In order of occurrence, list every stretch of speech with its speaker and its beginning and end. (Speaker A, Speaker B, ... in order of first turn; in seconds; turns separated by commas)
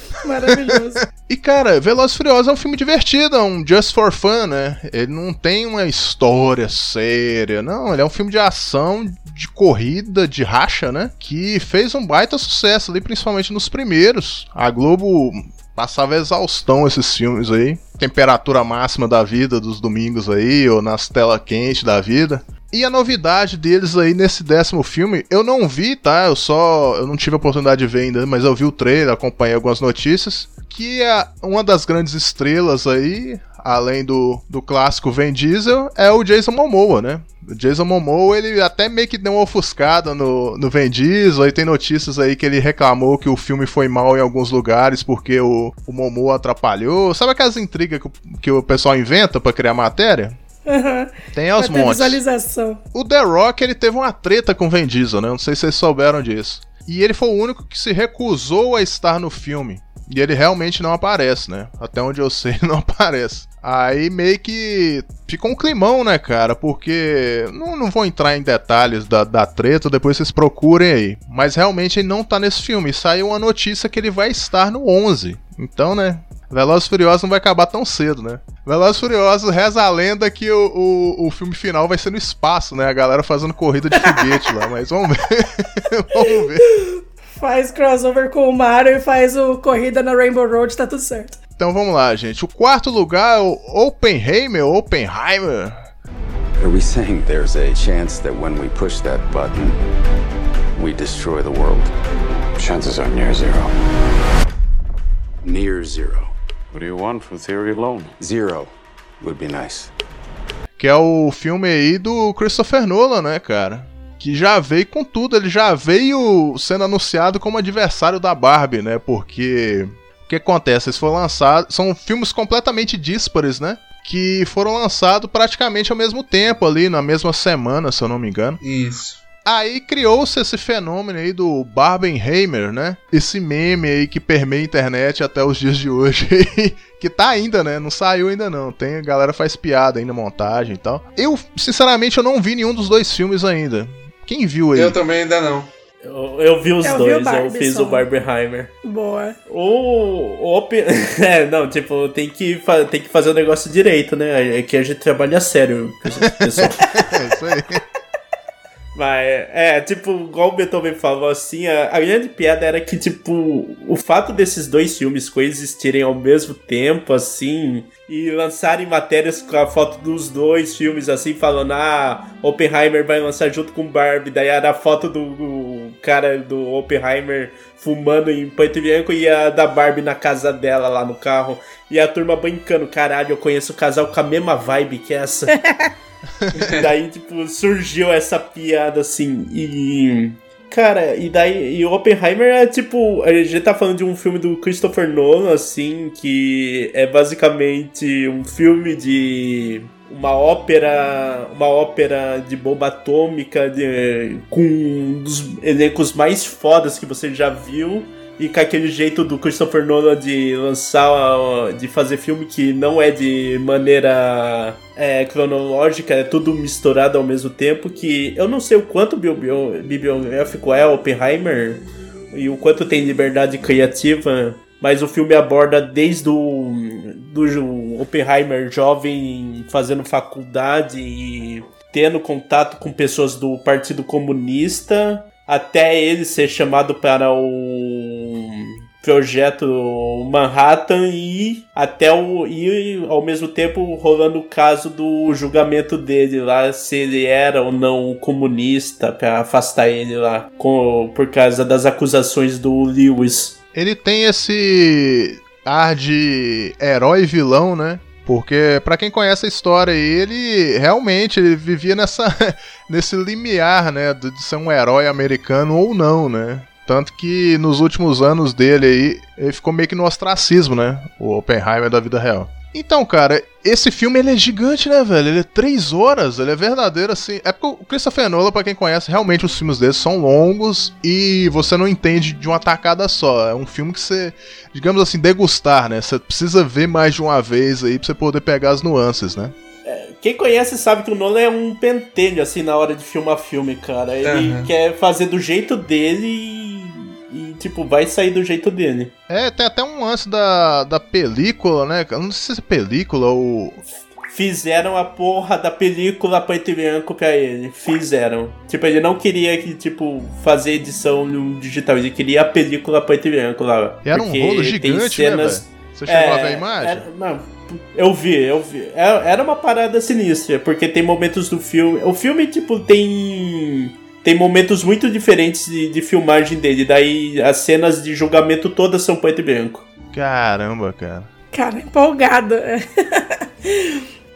Speaker A: 0.2-1.0, Speaker B: 0.4-50.4, Speaker A: 50.6-52.8, Speaker B: 51.3-52.2, Speaker B: 52.9-86.6, Speaker A: 86.8-91.4, Speaker B: 91.6-95.9, Speaker C: 96.6-99.8, Speaker C: 100.8-101.9, Speaker C: 102.5-103.7, Speaker C: 105.4-109.9, Speaker B: 110.8-128.6, Speaker D: 128.6-129.2, Speaker B: 129.4-145.0, Speaker D: 144.7-145.7, Speaker E: 146.0-148.7, Speaker A: 146.8-148.0, Speaker A: 148.8-149.3, Speaker E: 149.5-156.8, Speaker B: 156.2-157.8, Speaker E: 158.9-185.5, Speaker A: 185.5-185.9, Speaker B: 186.4-186.7, Speaker E: 186.6-253.6, Speaker B: 253.7-289.5, Speaker E: 289.9-299.1, Speaker D: 294.2-294.7, Speaker B: 299.3-303.8, Speaker E: 304.3-329.9, Speaker B: 314.0-317.1, Speaker B: 330.1-331.3, Speaker A: 331.5-334.0